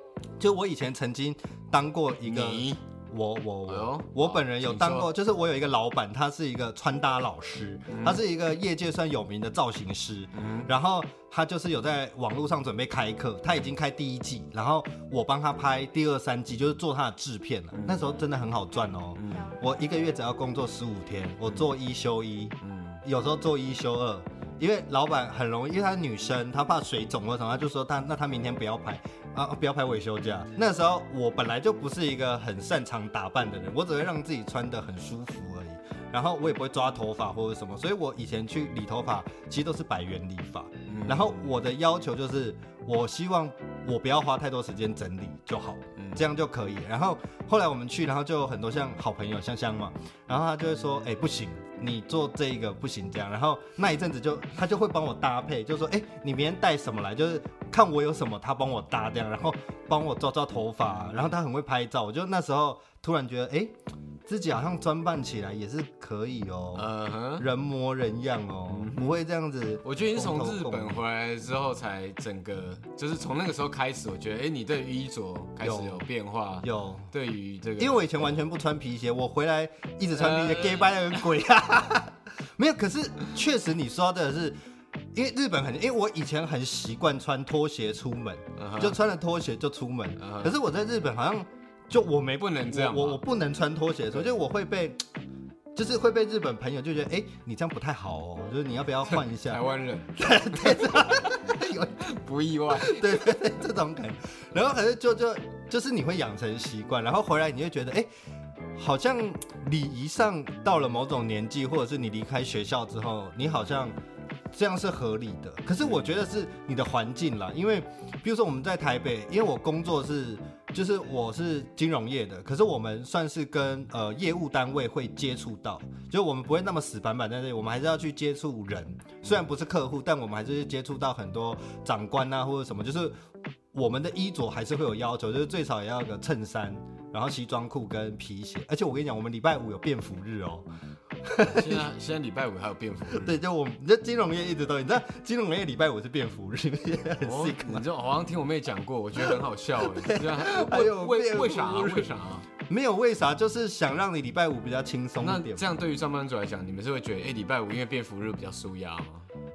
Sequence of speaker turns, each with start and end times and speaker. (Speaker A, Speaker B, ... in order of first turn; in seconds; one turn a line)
Speaker A: 0.4-63.7
Speaker B: 2.2-2.8
Speaker B: 3.7-5.1
Speaker B: 7.9-8.2
Speaker B: 10.3-10.7
Speaker B: 17.7-18.1
Speaker B: 19.2-19.5
Speaker B: 22.6-23.0
Speaker B: 40.9-41.5
Speaker B: 46.0-46.2
Speaker A: 64.3-71.0
Speaker B: 66.8-67.5
Speaker B: 68.7-69.2
Speaker B: 69.8-78.3
Speaker A: 75.6-76.1
Speaker A: 76.6-77.1
Speaker A: 77.8-84.5
Speaker B: 80.2-81.3
Speaker A: 85.1-95.0
Speaker B: 88.6-89.0
Speaker B: 90.2-90.6
Speaker B: 92.4-93.2
Speaker A: 95.8-99.6
Speaker B: 99.5-101.4
Speaker A: 100.2-102.0
Speaker B: 102.0-103.4
Speaker A: 102.7-108.1
Speaker A: 108.8-114.0
Speaker A: 114.5-133.2
Speaker A: 133.7-140.7
Speaker A: 141.2-141.8
Speaker B: 141.4-143.4
Speaker A: 143.1-147.8
Speaker B: 147.2-152.5
Speaker A: 149.2-152.1
Speaker A: 152.7-155.7
Speaker B: 155.2-159.3